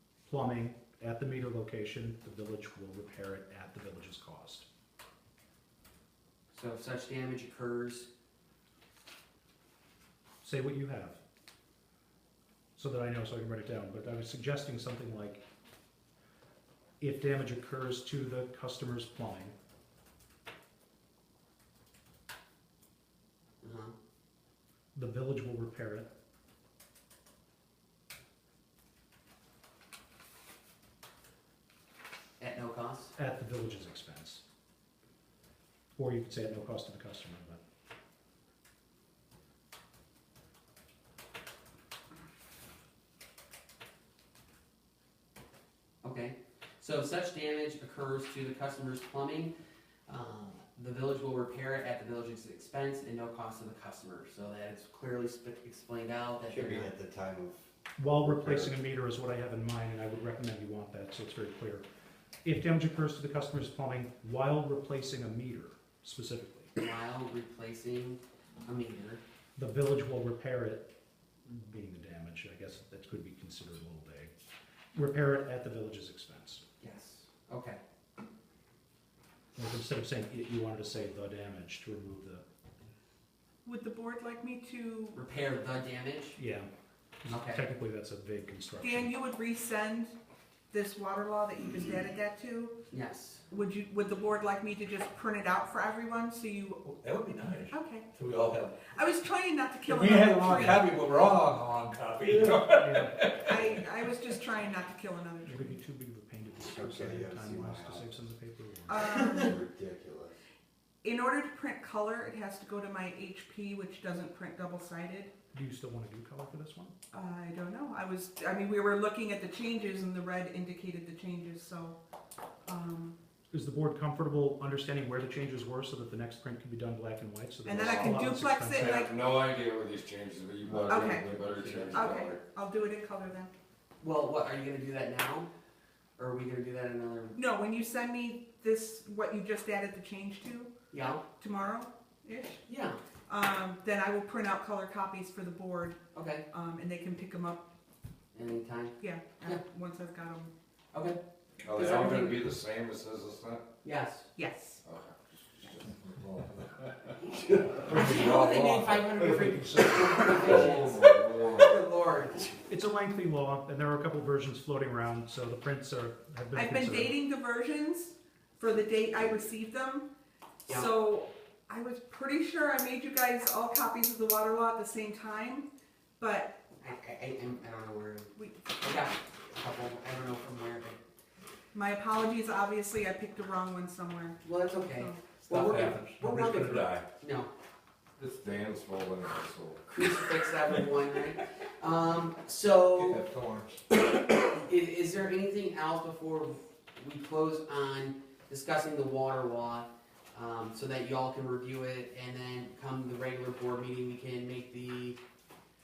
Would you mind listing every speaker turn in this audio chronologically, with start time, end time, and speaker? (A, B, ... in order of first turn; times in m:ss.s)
0:00.3-0:04.7 A
0:06.5-0:08.1 B
0:10.4-0:11.2 A
0:12.8-0:15.4 A
0:17.0-0:19.6 A
0:23.6-0:23.9 B
0:25.0-0:26.1 A
0:32.4-0:33.1 B
0:33.2-0:34.4 A
0:36.0-0:37.6 A
0:46.0-0:49.5 B
0:50.1-0:56.9 B
0:56.5-0:57.6 C
0:58.0-1:01.8 A
1:02.4-1:06.7 A
1:06.8-1:09.2 B
1:09.6-1:10.9 A
1:11.4-1:14.3 A
1:14.9-1:16.6 A
1:16.8-1:17.8 B
1:19.6-1:22.4 A
1:23.6-1:25.2 D
1:25.1-1:26.4 B
1:26.4-1:26.7 A
1:27.2-1:29.1 A
1:27.3-1:27.6 B
1:28.8-1:30.2 D
1:30.7-1:32.8 D
1:32.9-1:33.4 B
1:33.5-1:36.9 D
1:36.8-1:38.9 E
1:37.7-1:38.1 D
1:38.9-1:40.8 D
1:39.8-1:44.5 E
1:42.7-1:43.2 A
1:43.4-1:45.8 D
1:45.5-1:49.4 A
1:46.6-1:48.1 C
1:48.9-1:49.6 D
1:49.4-1:50.3 C
1:51.0-1:55.3 D
1:55.5-1:57.0 A
1:57.1-2:02.0 D
2:02.7-2:03.2 D
2:03.5-2:09.0 A
2:07.6-2:09.1 D
2:07.7-2:12.4 F
2:10.9-2:11.3 D
2:11.3-2:12.2 B
2:11.9-2:13.5 D
2:14.0-2:15.5 B
2:16.2-2:17.4 B
2:17.4-2:20.7 D
2:20.9-2:21.2 B
2:21.4-2:22.6 D
2:22.7-2:23.0 B
2:23.3-2:27.7 D
2:26.1-2:26.5 B
2:28.3-2:29.6 B
2:29.0-2:30.5 D
2:30.9-2:31.2 B
2:31.6-2:33.6 F
2:31.7-2:32.4 B
2:33.8-2:34.3 B
2:34.4-2:34.8 D
2:34.8-2:38.5 F
2:37.4-2:42.6 B
2:37.8-2:40.6 E
2:40.5-2:41.7 F
2:42.7-2:47.2 A
2:46.5-2:50.1 D
2:50.7-2:50.9 B
2:50.7-2:55.7 D
2:56.2-2:56.6 D
2:56.8-3:01.0 B
2:58.4-2:58.6 D
3:01.7-3:04.4 D
3:04.4-3:07.5 B
3:05.0-3:05.2 D
3:05.4-3:07.0 E
3:08.2-3:09.8 F
3:09.9-3:13.2 B
3:12.9-3:13.8 E
3:14.5-3:25.2 B